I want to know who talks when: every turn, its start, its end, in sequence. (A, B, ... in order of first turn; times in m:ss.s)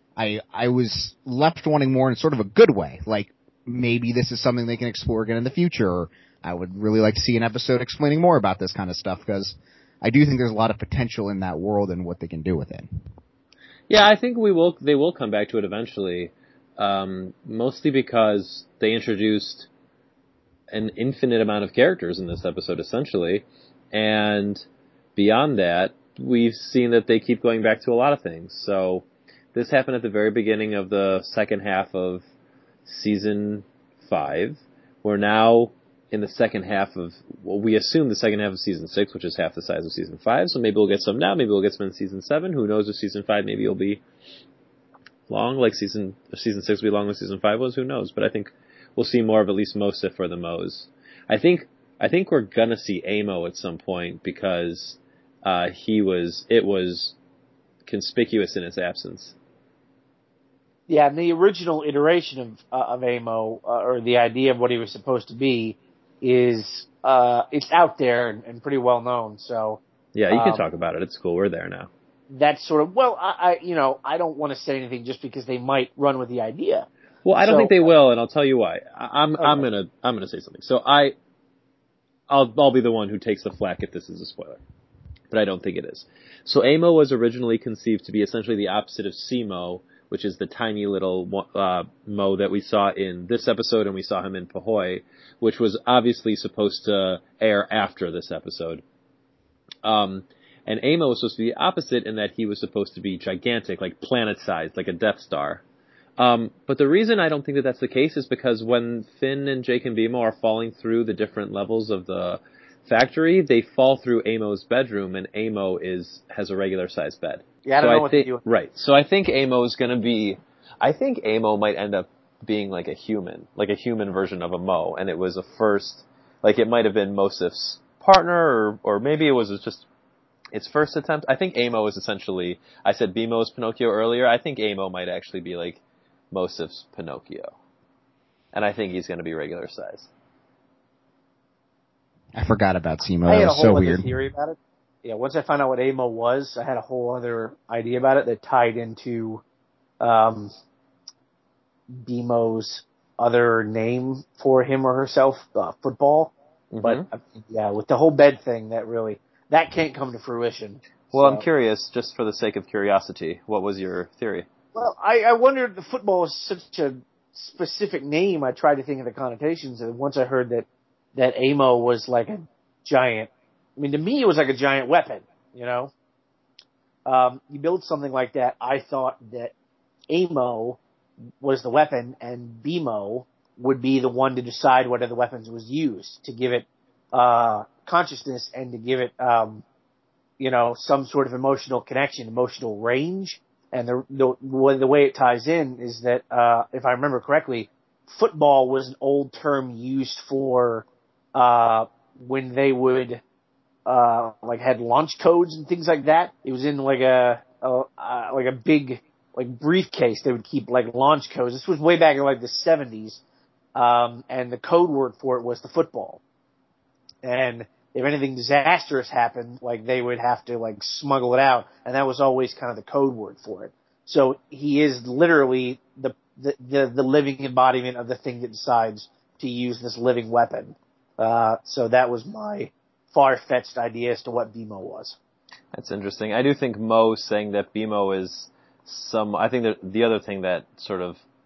0:00.2-0:13.0 A
0:13.9-0:19.7 B
0:20.7-0:24.6 B
0:25.2-0:32.2 B
0:32.9-0:44.0 B
0:45.3-0:57.2 B
0:57.9-0:59.3 B
1:00.9-1:10.6 C
1:10.2-1:11.9 B
1:12.3-1:16.9 C
1:17.2-1:21.1 B
1:17.4-1:17.9 C
1:19.4-1:19.7 C
1:22.3-1:24.6 B
1:25.3-1:38.8 B
1:39.8-1:45.6 B
1:46.2-2:09.9 B
1:57.6-1:58.4 C
2:10.5-2:15.8 B
2:16.3-2:17.5 B
2:18.5-2:20.1 B
2:22.4-2:24.1 A
2:23.3-2:29.4 C
2:30.0-2:30.5 C
2:31.9-2:41.4 C
2:36.7-2:37.0 B
2:41.1-2:44.5 B
2:44.8-2:55.9 C
2:57.1-2:59.5 C
3:00.1-3:00.8 C
3:01.4-3:09.6 C
3:10.4-3:23.2 C
3:23.9-3:33.2 C
3:33.8-3:36.2 C
3:37.2-3:55.2 C
3:55.7-4:01.2 B